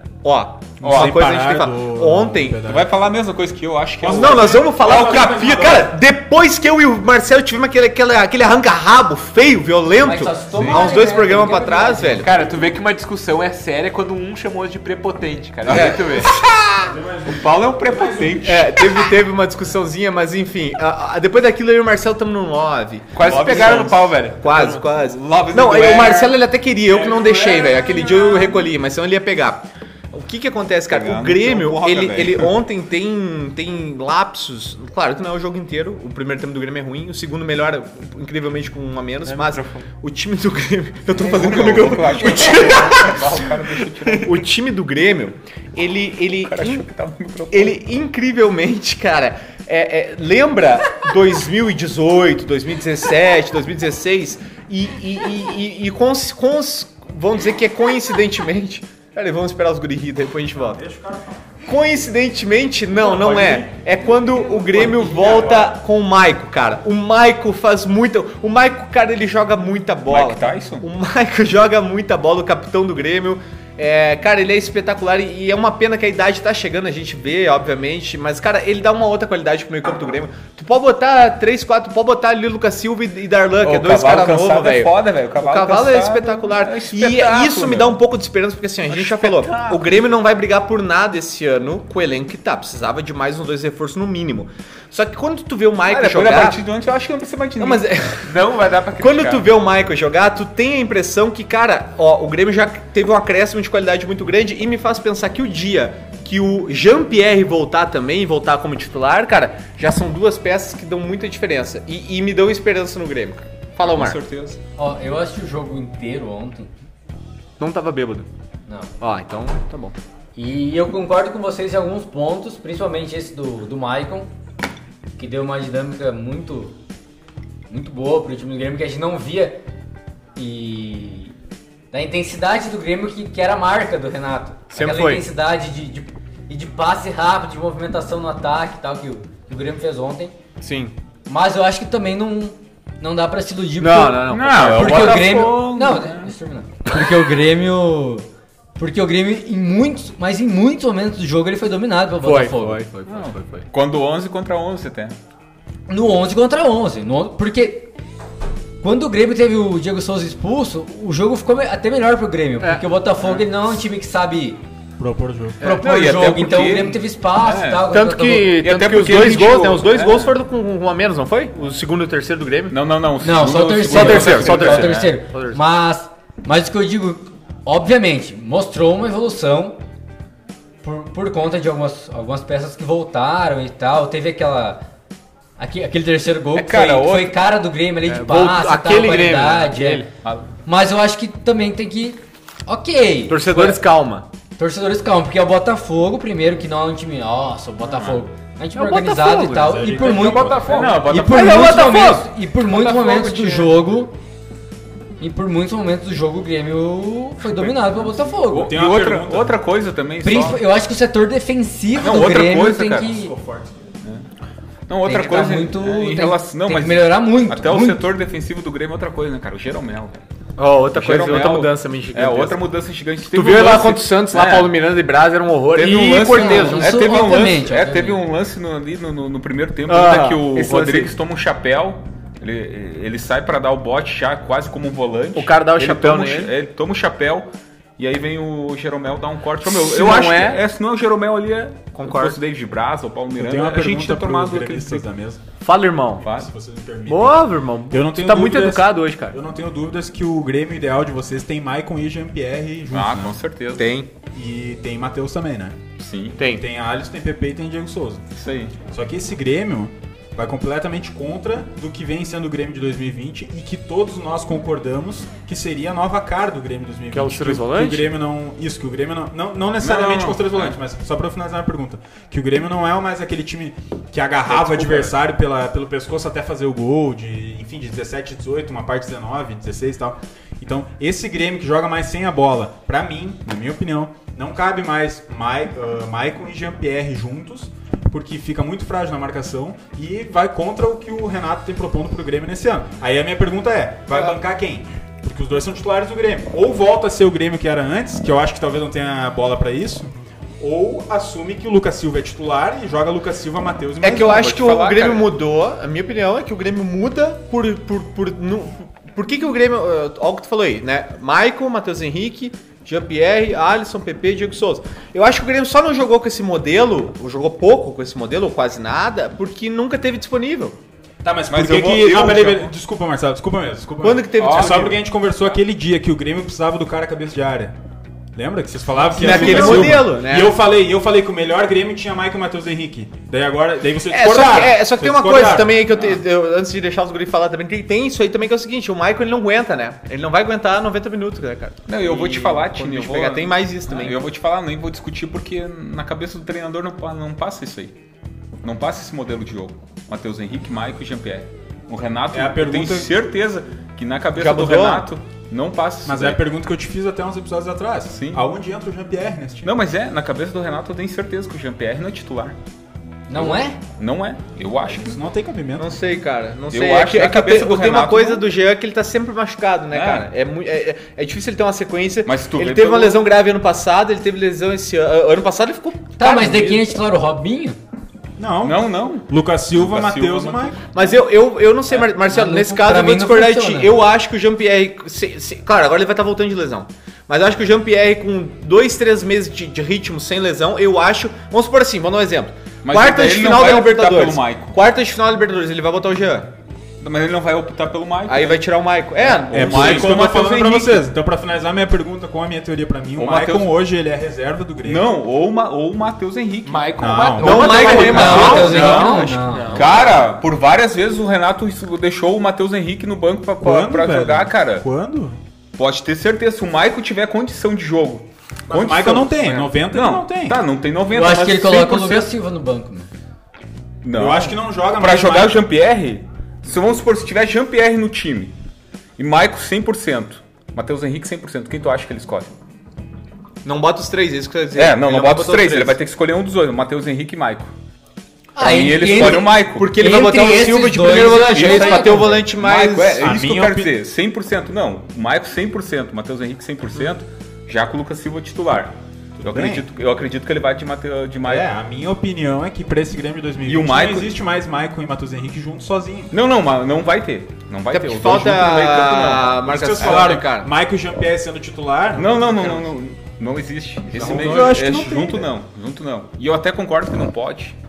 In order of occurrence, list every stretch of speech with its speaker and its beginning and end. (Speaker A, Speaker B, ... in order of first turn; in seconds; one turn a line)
Speaker A: 0.2-2.6
Speaker B: 0.8-2.9
Speaker C: 0.8-1.1
Speaker C: 2.6-4.7
Speaker B: 4.0-5.9
Speaker A: 4.0-12.3
Speaker D: 10.0-12.3
Speaker C: 10.5-11.0
Speaker E: 12.2-16.3
Speaker C: 15.7-16.4
Speaker A: 15.7-16.9
Speaker B: 16.8-18.6
Speaker C: 17.3-19.1
Speaker A: 18.4-43.4
Speaker E: 23.1-24.9
Speaker B: 23.2-23.8
Speaker C: 24.9-26.4
Speaker B: 26.9-28.7
Speaker C: 30.9-32.5
Speaker E: 39.2-39.9
Speaker C: 41.1-44.5
Speaker E: 42.2-43.2
Speaker E: 43.7-44.2
Speaker A: 44.2-46.9
Speaker C: 46.4-47.8
Speaker A: 47.5-60.8
Speaker B: 60.5-61.4
Speaker A: 61.6-96.6
Speaker B: 62.9-63.7
Speaker B: 64.3-65.7
Speaker C: 65.0-65.4
Speaker C: 70.1-70.9
Speaker C: 83.6-88.0
Speaker E: 88.9-89.8
Speaker C: 89.0-89.5
Speaker C: 95.8-97.9
Speaker A: 97.6-98.3
Speaker E: 98.2-99.5
Speaker A: 99.0-114.2
Speaker C: 113.8-114.6
Speaker D: 114.8-116.7
Speaker A: 117.6-118.3
Speaker D: 118.7-118.9
Speaker A: 119.0-120.0
Speaker D: 120.3-124.3
Speaker D: 125.2-126.8
Speaker D: 127.7-129.6
Speaker D: 130.3-131.3
Speaker D: 131.9-140.3
Speaker A: 134.7-135.2
Speaker A: 140.6-140.9
Speaker D: 141.3-148.2
Speaker A: 143.8-145.5
Speaker C: 144.2-146.3
Speaker D: 148.8-152.8
Speaker A: 152.2-153.7
Speaker C: 153.1-155.2
Speaker D: 155.9-157.9
Speaker D: 158.8-164.6
Speaker A: 162.6-162.8
Speaker B: 165.0-165.6
Speaker A: 165.6-166.1
Speaker D: 165.6-168.6
Speaker C: 165.7-167.9
Speaker A: 167.9-172.8
Speaker C: 168.5-170.3
Speaker C: 172.7-175.1
Speaker D: 173.2-179.8
Speaker A: 173.9-175.6
Speaker D: 180.8-184.8
Speaker D: 185.6-190.0
Speaker C: 186.5-187.3
Speaker A: 188.1-190.1
Speaker C: 190.2-190.5
Speaker D: 190.7-193.8
Speaker A: 193.3-194.2
Speaker D: 194.6-204.1
Speaker C: 197.8-198.2
Speaker A: 198.8-202.3
Speaker B: 199.6-200.6
Speaker E: 200.0-201.1
Speaker C: 200.7-201.9
Speaker E: 202.7-203.7
Speaker D: 205.2-208.8
Speaker C: 207.5-208.0
Speaker B: 208.4-209.6
Speaker C: 208.5-210.6
Speaker D: 210.2-213.3
Speaker C: 211.9-213.3
Speaker B: 213.2-213.9
Speaker C: 214.9-220.2
Speaker D: 215.0-218.0
Speaker A: 220.6-222.6
Speaker C: 220.9-224.8
Speaker A: 223.3-227.3
Speaker C: 225.7-245.0
Speaker D: 226.3-228.2
Speaker A: 229.9-231.1
Speaker A: 235.3-236.5
Speaker A: 239.6-240.6
Speaker A: 241.9-242.4
Speaker B: 243.4-245.4
Speaker A: 245.6-246.3
Speaker C: 246.2-246.5
Speaker B: 246.3-253.3
Speaker A: 247.1-249.3
Speaker C: 252.9-253.8
Speaker A: 253.8-254.1
Speaker B: 254.3-255.8
Speaker C: 256.0-256.4
Speaker A: 256.4-256.6
Speaker B: 256.5-258.2
Speaker C: 258.3-258.8
Speaker B: 258.9-300.1
Speaker E: 267.1-268.1
Speaker C: 269.8-270.7
Speaker B: 300.6-304.5
Speaker A: 304.0-320.8
Speaker C: 304.1-305.3
Speaker B: 321.2-327.7
Speaker C: 321.5-322.6
Speaker A: 324.0-325.0
Speaker E: 324.4-324.8
Speaker B: 328.3-335.8
Speaker A: 329.1-330.6
Speaker E: 329.3-329.6
Speaker C: 329.6-329.9
Speaker A: 334.1-344.2
Speaker C: 335.9-336.2
Speaker C: 341.9-347.9
Speaker C: 348.6-356.4
Speaker B: 352.3-353.1
Speaker A: 354.3-355.1
Speaker B: 356.0-359.7
Speaker C: 358.1-358.4
Speaker C: 359.6-362.5
Speaker D: 363.3-363.8
Speaker C: 363.3-365.2
Speaker B: 364.8-365.9
Speaker A: 365.8-376.9
Speaker C: 366.7-368.5
Speaker C: 369.9-370.3
Speaker C: 372.2-373.3
Speaker D: 376.2-377.8
Speaker B: 378.4-380.8
Speaker C: 378.6-381.1
Speaker A: 380.9-396.5
Speaker D: 382.2-383.9
Speaker C: 392.8-394.8
Speaker C: 397.0-398.6
Speaker A: 398.3-400.3
Speaker C: 399.2-401.0
Speaker B: 399.5-405.1
Speaker C: 403.2-403.7
Speaker C: 404.8-407.5
Speaker E: 406.6-410.2
Speaker B: 407.0-409.3
Speaker A: 407.4-409.4
Speaker C: 408.0-414.8
Speaker D: 408.0-409.9
Speaker B: 413.6-415.4
Speaker C: 415.8-422.3
Speaker B: 418.7-420.6
Speaker D: 421.1-423.1
Speaker C: 424.0-428.5
Speaker B: 424.1-425.6
Speaker C: 429.2-432.5
Speaker A: 433.6-436.0
Speaker C: 434.7-437.7
Speaker D: 438.6-442.4
Speaker C: 438.6-439.9
Speaker A: 438.6-443.3
Speaker C: 441.4-451.7
Speaker B: 443.1-443.9
Speaker B: 449.4-449.9
Speaker B: 451.4-456.3
Speaker C: 453.6-454.3
Speaker C: 456.3-460.4
Speaker A: 457.9-460.7
Speaker B: 459.6-462.8
Speaker C: 462.1-467.7
Speaker B: 464.1-465.5
Speaker A: 464.2-464.7